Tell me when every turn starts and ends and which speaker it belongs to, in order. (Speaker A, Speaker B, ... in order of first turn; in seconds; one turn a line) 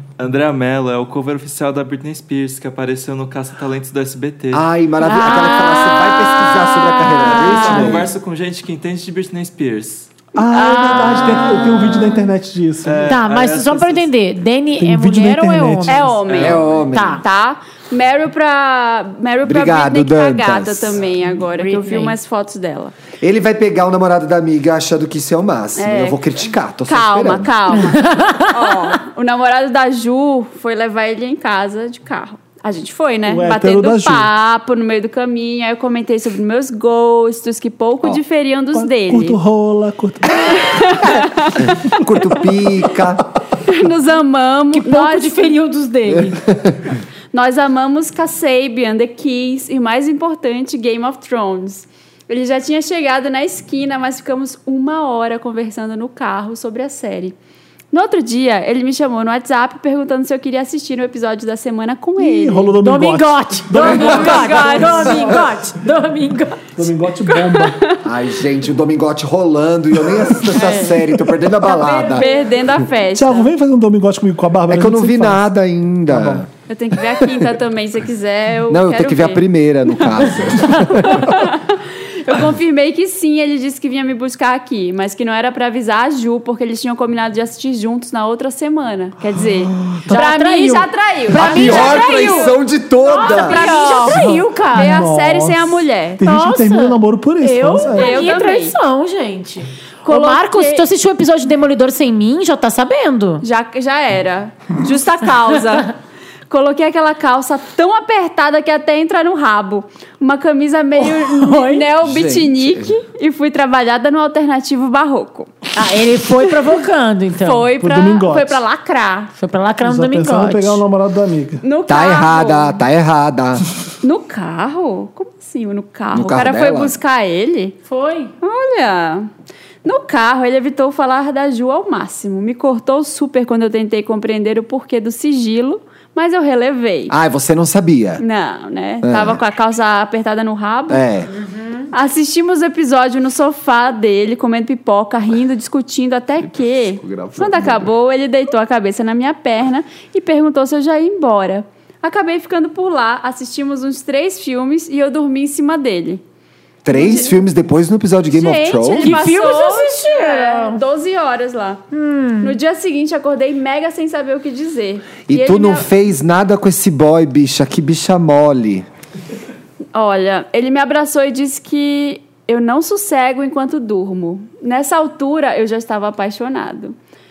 Speaker A: 0.2-4.7
Speaker B: 4.5-8.1
Speaker C: 5.0-8.0
Speaker A: 7.2-10.1
Speaker D: 10.3-13.2
Speaker E: 10.4-12.2
Speaker C: 11.1-12.1
Speaker A: 12.8-14.1
Speaker C: 13.1-16.1
Speaker D: 14.8-16.1
Speaker E: 15.9-22.9
Speaker A: 16.2-16.9
Speaker B: 16.3-17.2
Speaker C: 16.9-17.2
Speaker B: 19.4-21.0
Speaker C: 21.4-22.1
Speaker B: 23.2-27.5
Speaker E: 25.8-39.4
Speaker C: 27.7-28.9
Speaker D: 33.3-34.3
Speaker D: 38.7-40.9
Speaker E: 40.4-42.3
Speaker B: 41.9-43.2
Speaker E: 43.6-45.5
Speaker C: 44.7-46.4
Speaker B: 46.1-46.8
Speaker E: 47.3-57.4
Speaker E: 57.9-62.8
Speaker D: 62.2-65.5
Speaker C: 62.8-66.7
Speaker E: 63.8-65.4
Speaker D: 66.8-67.8
Speaker E: 67.2-68.0
Speaker B: 68.0-72.3
Speaker C: 70.5-70.9
Speaker E: 70.6-70.8
Speaker E: 71.6-73.5
Speaker D: 73.1-75.5
Speaker B: 74.7-76.5
Speaker D: 76.1-76.4
Speaker E: 76.7-96.2
Speaker B: 77.2-77.5
Speaker B: 78.7-81.5
Speaker D: 89.6-90.8
Speaker C: 90.1-92.5
Speaker B: 91.3-93.7
Speaker C: 93.0-95.0
Speaker D: 94.0-98.3
Speaker C: 96.2-103.4
Speaker E: 97.9-98.8
Speaker E: 100.0-100.8
Speaker E: 103.4-105.9
Speaker E: 106.5-115.7
Speaker C: 111.0-111.9
Speaker B: 112.0-112.9
Speaker C: 115.7-117.7
Speaker E: 117.4-119.3
Speaker D: 117.8-118.6
Speaker C: 119.3-120.8
Speaker D: 119.8-121.6
Speaker E: 121.6-122.8
Speaker B: 121.9-123.7
Speaker E: 124.0-127.8
Speaker B: 126.1-126.9
Speaker C: 127.9-128.3
Speaker E: 128.4-129.3
Speaker E: 129.8-137.1
Speaker B: 137.1-138.2
Speaker E: 138.2-141.0
Speaker B: 139.0-139.4
Speaker B: 140.9-141.3
Speaker C: 141.3-141.9
Speaker E: 141.9-156.2
Speaker B: 147.0-147.9
Speaker B: 156.8-159.2
Speaker E: 156.9-157.4
Speaker E: 158.3-161.8
Speaker C: 159.0-160.8
Speaker C: 161.9-162.6
Speaker E: 162.4-165.9
Speaker B: 165.3-168.9
Speaker E: 169.9-176.9